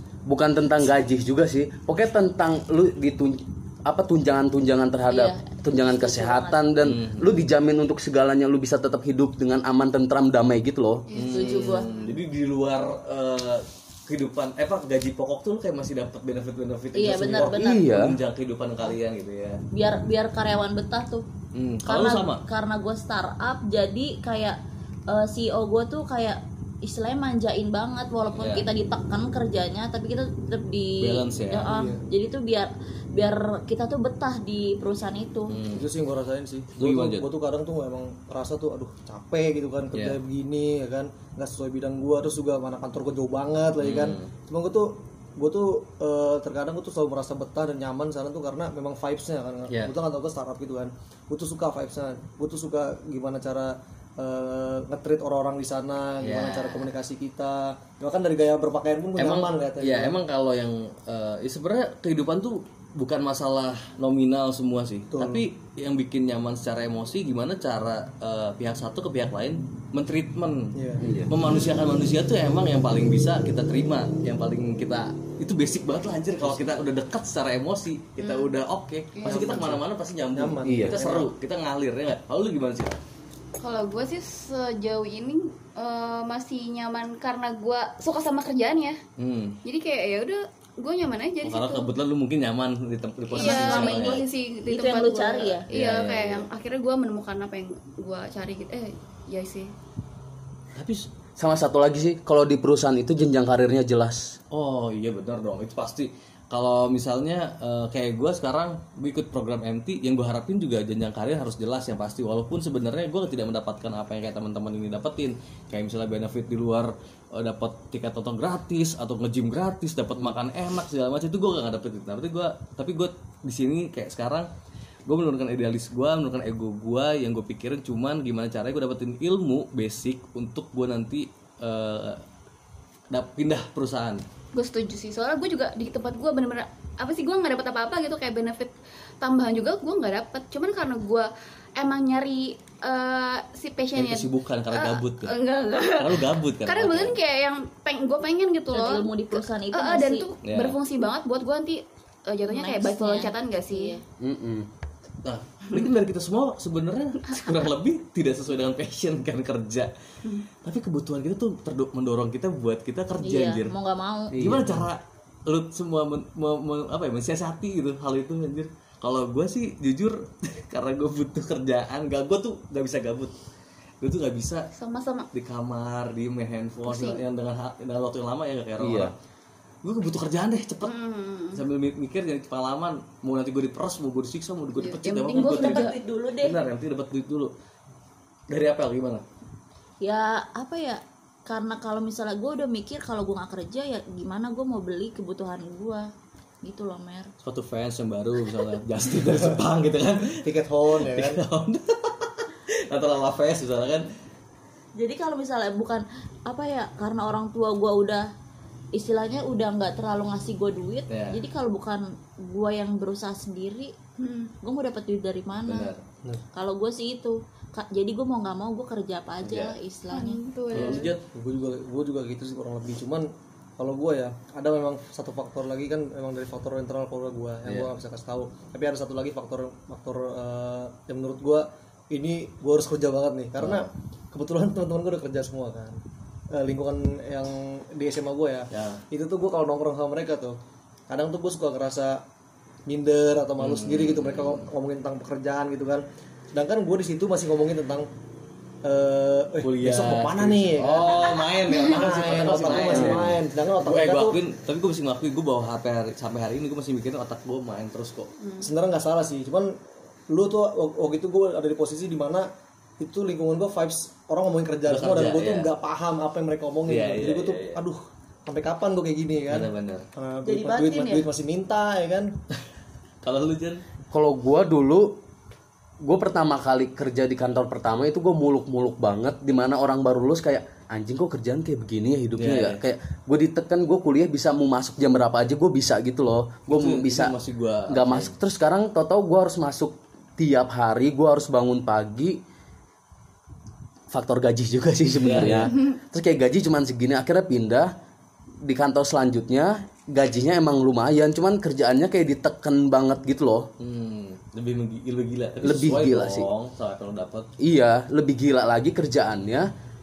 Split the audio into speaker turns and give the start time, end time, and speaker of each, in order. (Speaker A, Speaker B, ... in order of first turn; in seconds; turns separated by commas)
Speaker A: 0.2-11.0, Speaker B: 5.1-6.8, Speaker C: 6.8-7.4, Speaker D: 11.1-12.1, Speaker C: 11.1-19.6, Speaker B: 11.2-11.9, Speaker B: 16.9-17.8, Speaker A: 17.4-18.1, Speaker B: 19.7-21.2, Speaker C: 21.5-22.4, Speaker B: 21.9-35.6, Speaker C: 28.3-28.7, Speaker C: 31.0-31.7, Speaker E: 31.7-32.0, Speaker C: 35.5-35.9, Speaker E: 35.7-60.2, Speaker C: 36.7-37.3, Speaker C: 39.9-40.2, Speaker C: 43.8-44.3, Speaker C: 49.7-49.9, Speaker C: 56.2-56.9, Speaker C: 59.2-83.0, Speaker E: 65.1-65.4, Speaker E: 70.7-71.1, Speaker A: 71.0-71.3, Speaker E: 76.4-76.8, Speaker D: 78.2-78.5, Speaker D: 79.1-79.7, Speaker E: 79.2-81.3, Speaker A: 80.6-81.0, Speaker D: 83.6-89.0, Speaker C: 89.2-89.6, Speaker D: 89.6-91.9, Speaker C: 91.4-94.2, Speaker B: 93.3-95.7, Speaker D: 93.3-99.7, Speaker C: 95.7-96.5, Speaker C: 100.7-101.1, Speaker A: 101.4-104.4, Speaker C: 104.5-124.5, Speaker C: 125.0-132.2, Speaker C: 133.1-134.2, Speaker D: 134.5-154.0, Speaker C: 143.9-145.3, Speaker C: 145.9-147.2, Speaker B: 148.7-150.3, Speaker C: 150.4-150.8, Speaker B: 152.5-154.0, Speaker A: 154.2-154.7, Speaker C: 155.2-159.9, Speaker C: 160.6-163.7, Speaker B: 163.2-164.4, Speaker A: 164.3-164.9, Speaker C: 164.3-173.3, Speaker C: 174.0-174.7, Speaker D: 174.7-175.3, Speaker C: 175.3-179.1, Speaker D: 176.9-177.2, Speaker A: 178.8-179.1, Speaker C: 179.8-180.9, Speaker D: 180.8-181.6, Speaker C: 181.5-187.5, Speaker D: 184.8-186.0, Speaker B: 185.3-186.6, Speaker C: 188.5-189.2, Speaker B: 190.0-196.1, Speaker B: 196.6-197.3, Speaker C: 197.4-204.1, Speaker E: 200.4-201.4, Speaker B: 204.9-208.3, Speaker B: 208.9-213.9, Speaker C: 211.1-211.4, Speaker D: 214.2-214.5, Speaker B: 214.6-215.9, Speaker C: 215.7-216.0, Speaker B: 216.5-220.4, Speaker C: 219.4-219.8, Speaker D: 220.1-221.1, Speaker C: 220.7-221.2, Speaker E: 220.9-236.0, Speaker C: 227.6-227.9, Speaker C: 233.6-233.9, Speaker E: 236.5-242.2, Speaker C: 238.7-239.0, Speaker E: 242.9-248.1, Speaker C: 243.6-244.6, Speaker E: 248.8-254.4, Speaker C: 249.6-258.3, Speaker A: 252.8-253.3, Speaker D: 258.4-258.7, Speaker E: 258.6-259.8, Speaker E: 260.3-262.5, Speaker E: 263.0-272.4, Speaker C: 264.9-265.7, Speaker C: 266.9-267.8, Speaker C: 269.5-270.1, Speaker B: 270.4-271.3, Speaker C: 273.2-273.8, Speaker A: 274.1-275.2, Speaker A: 276.0-287.3, Speaker C: 282.4-282.8, Speaker C: 286.7-288.3, Speaker A: 287.9-292.4, Speaker A: 294.1-297.9, Speaker C: 295.2-295.7, Speaker A: 298.6-303.7, Speaker C: 303.8-307.5, Speaker A: 305.6-306.5, Speaker A: 307.6-309.7